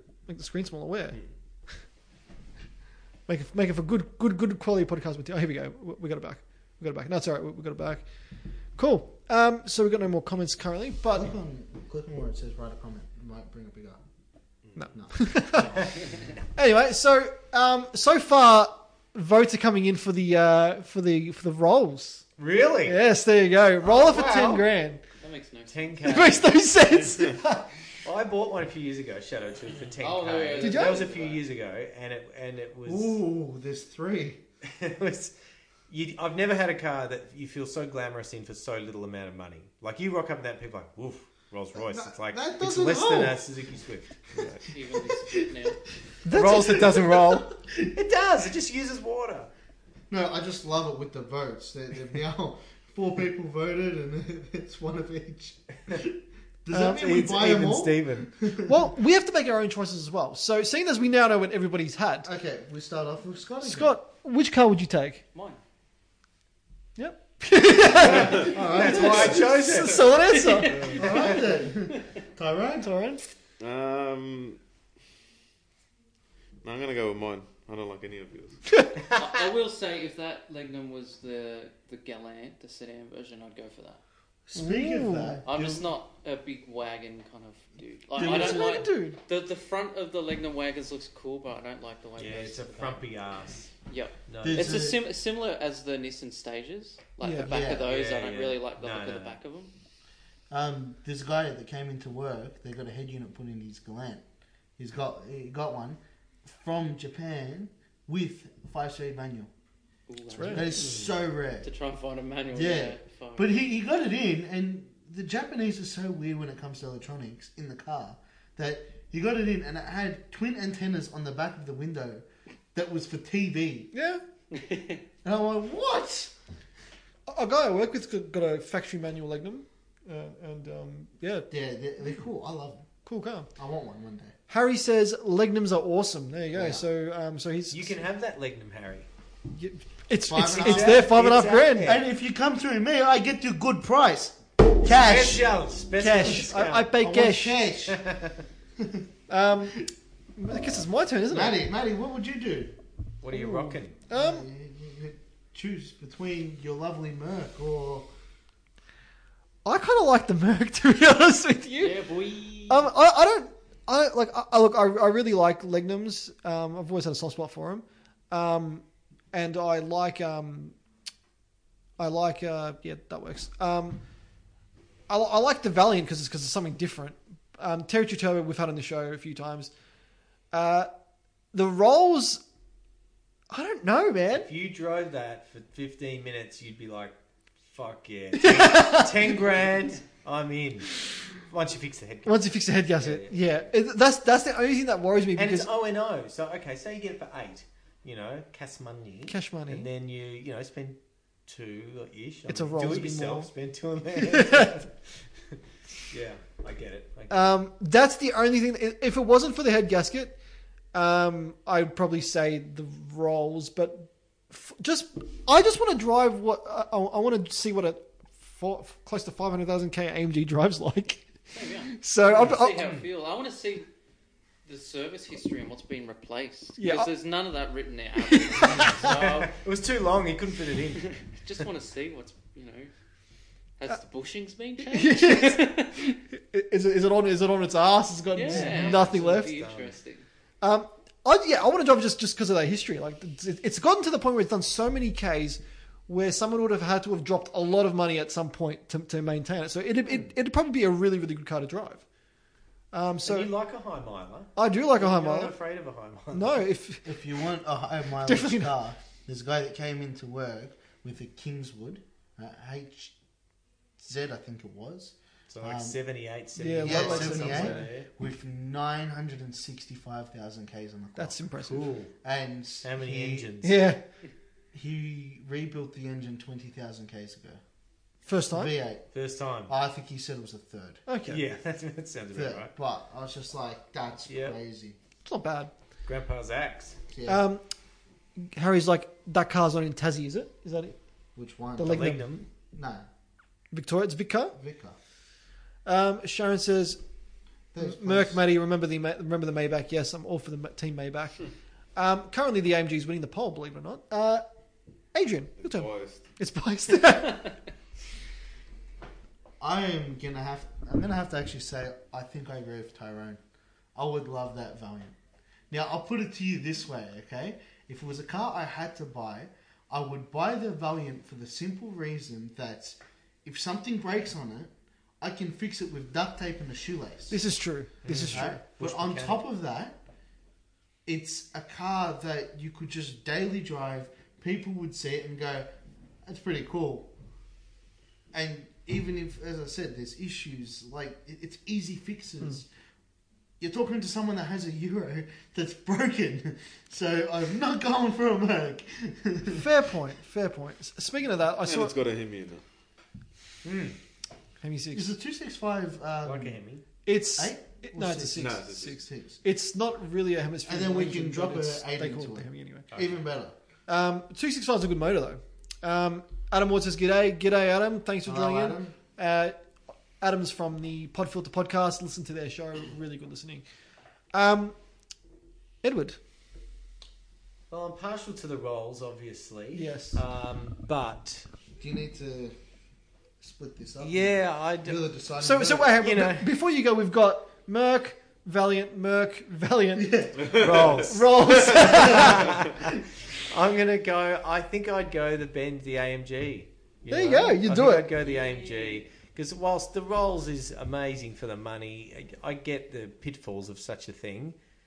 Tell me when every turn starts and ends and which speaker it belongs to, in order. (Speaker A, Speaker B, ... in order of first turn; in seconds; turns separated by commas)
Speaker A: 0.3-1.2, Speaker A: 3.3-8.1, Speaker A: 8.8-11.3, Speaker B: 11.1-14.0, Speaker A: 14.8-15.8, Speaker B: 14.9-15.4, Speaker A: 16.5-22.2, Speaker C: 22.4-23.0, Speaker A: 22.8-25.0, Speaker C: 23.8-24.7, Speaker D: 25.2-26.4, Speaker C: 25.7-26.6, Speaker A: 26.1-27.6, Speaker C: 28.0-33.2, Speaker D: 29.9-31.4, Speaker A: 30.6-31.0, Speaker B: 32.8-34.4, Speaker C: 34.6-35.3, Speaker C: 35.9-44.5, Speaker B: 41.8-43.4, Speaker D: 44.6-45.8, Speaker B: 45.0-45.7, Speaker A: 46.2-47.1, Speaker C: 46.3-49.5, Speaker B: 46.5-47.7, Speaker B: 50.1-58.9, Speaker A: 56.7-57.0, Speaker C: 56.8-58.3, Speaker A: 58.6-62.3, Speaker B: 62.2-64.0, Speaker A: 63.6-65.2, Speaker D: 65.3-65.6, Speaker A: 67.0-71.0, Speaker C: 68.0-70.3, Speaker B: 68.1-69.5, Speaker D: 70.5-71.0, Speaker E: 70.7-71.0, Speaker C: 70.9-71.3, Speaker B: 70.9-73.0, Speaker A: 72.8-73.2, Speaker E: 73.6-74.6, Speaker E: 76.6-78.6, Speaker D: 79.1-84.0, Speaker B: 84.5-85.8, Speaker A: 84.5-85.4, Speaker D: 85.4-93.0, Speaker B: 88.1-88.9, Speaker A: 88.2-89.2, Speaker C: 92.2-93.7, Speaker D: 93.8-99.7, Speaker C: 94.3-94.8, Speaker B: 94.4-95.0, Speaker A: 97.2-97.5, Speaker B: 97.4-97.9, Speaker C: 97.8-99.4, Speaker B: 100.5-104.2, Speaker B: 104.8-109.5, Speaker D: 110.1-110.8, Speaker A: 110.3-110.6, Speaker B: 110.4-111.7, Speaker C: 110.7-111.1, Speaker D: 111.6-113.5, Speaker B: 112.5-123.9, Speaker A: 123.9-124.2, Speaker D: 124.5-125.0, Speaker B: 125.2-126.3, Speaker A: 127.3-131.5, Speaker B: 131.5-132.8, Speaker A: 133.1-133.5, Speaker B: 133.6-134.3, Speaker A: 134.5-137.9, Speaker B: 136.5-136.8, Speaker C: 137.7-139.1, Speaker A: 139.5-142.0, Speaker B: 140.3-141.2, Speaker C: 140.5-142.0, Speaker B: 141.8-145.6, Speaker C: 144.8-146.9, Speaker A: 145.9-147.6, Speaker B: 147.0-148.0, Speaker C: 147.8-148.4, Speaker B: 148.8-149.1, Speaker A: 149.3-149.8, Speaker A: 150.3-151.6, Speaker B: 151.3-152.8, Speaker C: 153.2-154.0, Speaker A: 153.3-154.5, Speaker B: 154.1-158.1, Speaker A: 159.6-162.0, Speaker D: 161.8-162.8, Speaker A: 162.7-170.8, Speaker A: 172.0-174.0, Speaker A: 175.1-179.7, Speaker A: 180.5-180.9, Speaker A: 181.5-182.4, Speaker A: 183.5-184.5, Speaker C: 184.3-187.2, Speaker C: 187.7-193.7, Speaker A: 188.4-189.1, Speaker A: 192.2-195.7, Speaker C: 195.3-204.9, Speaker A: 199.3-199.9, Speaker A: 202.5-203.5, Speaker A: 204.2-204.8, Speaker C: 206.1-207.5, Speaker A: 207.3-210.3, Speaker A: 210.9-221.3, Speaker D: 221.5-223.9, Speaker A: 221.9-222.9, Speaker C: 222.2-223.0, Speaker D: 224.7-229.5, Speaker A: 226.8-227.1, Speaker A: 228.3-229.0, Speaker C: 228.8-231.6, Speaker D: 231.3-232.9, Speaker D: 233.8-236.1, Speaker A: 234.8-239.5, Speaker D: 238.3-240.2, Speaker C: 238.4-240.0, Speaker A: 240.6-252.0, Speaker A: 252.9-253.5, Speaker C: 253.2-256.6, Speaker A: 254.6-255.5, Speaker A: 256.3-257.1, Speaker B: 257.0-263.1, Speaker A: 258.2-258.7, Speaker B: 264.0-266.0, Speaker C: 265.5-268.1, Speaker A: 266.6-267.9, Speaker B: 266.8-271.4, Speaker A: 271.1-271.9, Speaker C: 271.6-272.1, Speaker B: 272.1-273.5, Speaker C: 272.8-273.8, Speaker A: 273.6-274.0, Speaker B: 274.7-277.6, Speaker A: 278.2-278.7, Speaker B: 278.5-279.0, Speaker C: 279.1-279.7, Speaker B: 279.7-281.0, Speaker A: 281.1-281.4, Speaker C: 281.3-282.7, Speaker B: 282.3-285.0, Speaker C: 284.3-284.6, Speaker A: 285.2-285.7, Speaker C: 286.0-287.0, Speaker B: 287.1-287.4, Speaker A: 287.2-287.6, Speaker A: 288.4-291.0, Speaker B: 291.4-292.2, Speaker A: 291.8-292.3, Speaker C: 291.8-292.5, Speaker B: 292.7-293.0, Speaker A: 293.7-294.6, Speaker B: 294.6-295.0, Speaker A: 295.8-297.0, Speaker B: 297.7-298.4, Speaker A: 297.8-304.4, Speaker A: 305.1-307.6, Speaker E: 305.6-306.2, Speaker B: 309.6-313.4, Speaker B: 313.9-315.1, Speaker B: 315.7-327.4, Speaker A: 327.3-328.6, Speaker C: 328.0-329.4, Speaker B: 328.3-330.0, Speaker B: 331.1-335.7, Speaker B: 336.2-337.1, Speaker B: 338.3-342.7, Speaker B: 343.6-349.6, Speaker A: 349.5-351.9, Speaker E: 351.6-352.6, Speaker C: 353.6-353.9, Speaker A: 354.6-355.1, Speaker B: 354.9-356.6, Speaker C: 356.2-356.8, Speaker A: 357.0-362.9, Speaker B: 357.4-359.4, Speaker E: 358.4-359.0, Speaker B: 360.6-363.5, Speaker C: 362.9-363.2, Speaker A: 363.9-369.6, Speaker B: 368.2-368.9, Speaker A: 370.2-373.6, Speaker A: 374.3-374.8, Speaker A: 375.8-376.2, Speaker C: 377.7-381.5, Speaker A: 379.7-380.2, Speaker B: 381.8-382.5, Speaker B: 383.4-386.0, Speaker C: 384.0-385.0, Speaker A: 385.4-392.7, Speaker C: 386.0-386.5, Speaker B: 389.9-390.6, Speaker E: 390.4-391.9, Speaker C: 390.5-392.7, Speaker B: 392.0-392.3, Speaker C: 393.5-404.6, Speaker A: 397.1-398.1, Speaker D: 398.2-399.0